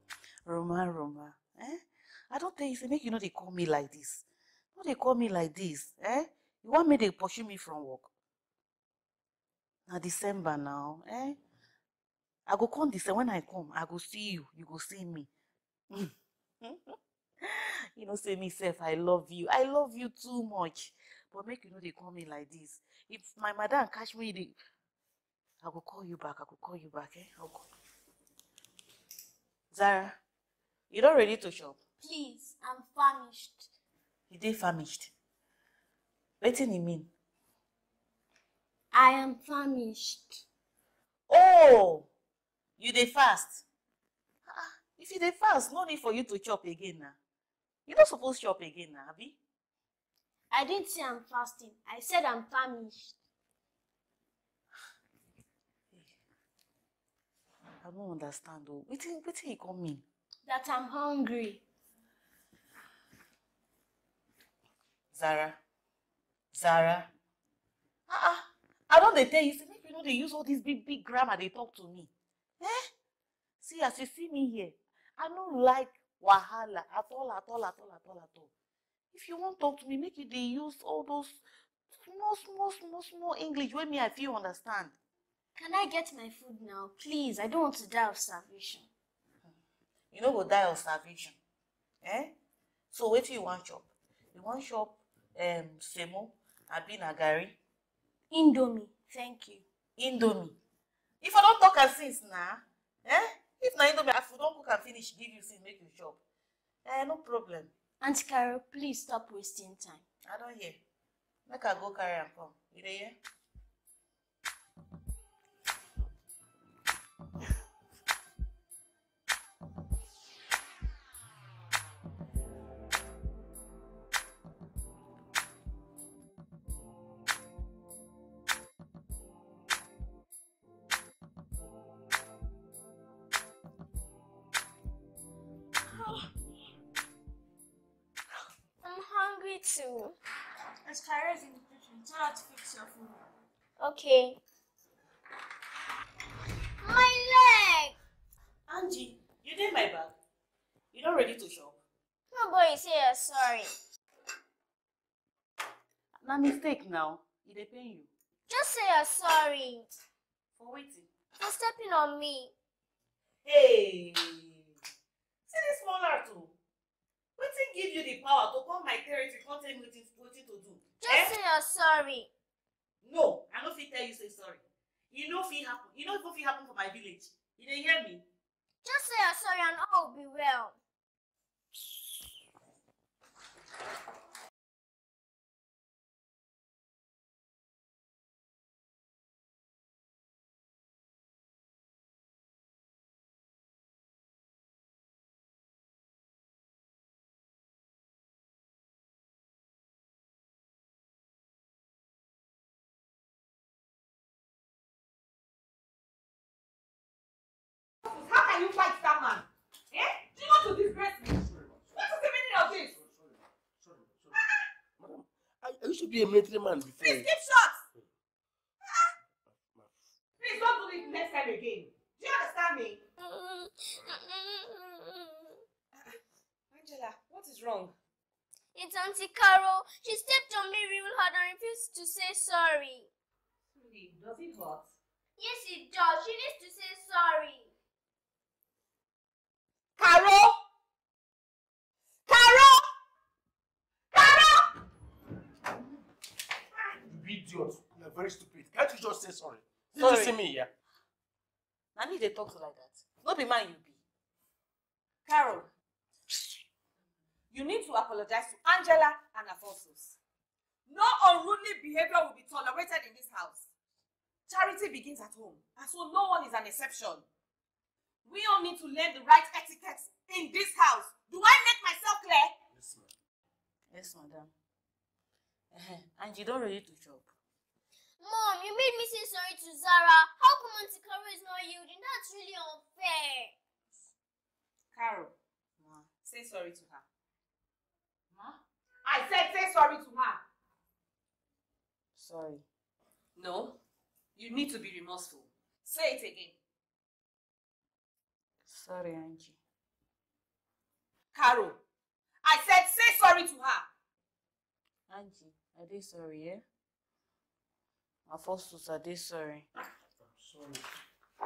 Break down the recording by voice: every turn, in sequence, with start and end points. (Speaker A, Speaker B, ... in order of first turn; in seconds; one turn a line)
Speaker A: 0.5-8.1
Speaker A: 9.9-11.4
Speaker A: 12.5-15.3
Speaker A: 15.9-24.5
Speaker A: 25.6-27.6
Speaker A: 29.7-30.2
Speaker A: 30.9-31.8
Speaker B: 32.0-33.7
Speaker A: 34.3-35.1
Speaker A: 36.4-37.1
Speaker B: 38.9-40.4
Speaker A: 41.3-42.1
Speaker A: 42.8-43.6
Speaker A: 44.5-47.1
Speaker A: 47.9-49.4
Speaker B: 50.5-53.1
Speaker A: 57.8-60.0
Speaker B: 60.5-61.6
Speaker A: 65.1-65.6
Speaker A: 66.5-67.1
Speaker A: 68.1-72.9
Speaker A: 73.6-78.5
Speaker A: 79.1-81.4
Speaker A: 82.0-84.9
Speaker B: 85.5-88.9
Speaker A: 90.1-91.4
Speaker A: 92.0-92.3
Speaker A: 92.9-97.6
Speaker B: 98.3-99.6
Speaker A: 100.0-100.6
Speaker A: 101.2-106.2
Speaker A: 106.8-107.7
Speaker B: 108.0-110.0
Speaker A: 110.2-110.8
Speaker A: 111.5-113.2
Speaker C: 138.8-140.1
Speaker B: 140.9-143.2
Speaker C: 143.8-144.4
Speaker C: 146.8-147.9
Speaker A: 148.7-150.1
Speaker A: 150.9-151.8
Speaker C: 152.3-153.7
Speaker A: 156.2-158.1
Speaker C: 158.5-159.8
Speaker A: 160.6-161.1
Speaker C: 161.4-162.5
Speaker A: 163.4-164.7
Speaker A: 165.5-166.5
Speaker A: 167.4-171.3
Speaker C: 171.0-172.3
Speaker A: 173.0-178.2
Speaker C: 178.8-180.7
Speaker D: 208.0-212.9
Speaker E: 211.5-212.2
Speaker E: 212.9-214.4
Speaker E: 215.0-217.3
Speaker D: 217.0-217.8
Speaker D: 220.4-223.0
Speaker D: 226.7-227.9
Speaker C: 230.0-230.5
Speaker C: 231.8-232.6
Speaker D: 233.7-234.9
Speaker B: 235.6-237.7
Speaker D: 240.0-240.6
Speaker D: 242.3-242.8
Speaker D: 244.1-244.7
Speaker E: 247.0-250.7
Speaker A: 249.9-250.3
Speaker A: 251.9-254.0
Speaker D: 255.2-255.7
Speaker D: 257.5-260.2
Speaker D: 260.9-263.7
Speaker D: 264.5-267.2
Speaker D: 268.2-272.5
Speaker A: 273.9-274.5
Speaker A: 275.7-277.3
Speaker C: 278.2-283.5
Speaker D: 284.9-285.3
Speaker A: 285.8-286.1
Speaker D: 286.2-287.0
Speaker A: 288.3-288.6
Speaker D: 289.0-290.4
Speaker A: 292.1-292.6
Speaker D: 293.4-293.8
Speaker D: 294.3-296.6
Speaker A: 298.7-299.6
Speaker D: 301.3-301.8
Speaker D: 302.4-303.9
Speaker A: 305.1-306.6
Speaker A: 308.3-309.7
Speaker E: 310.4-310.8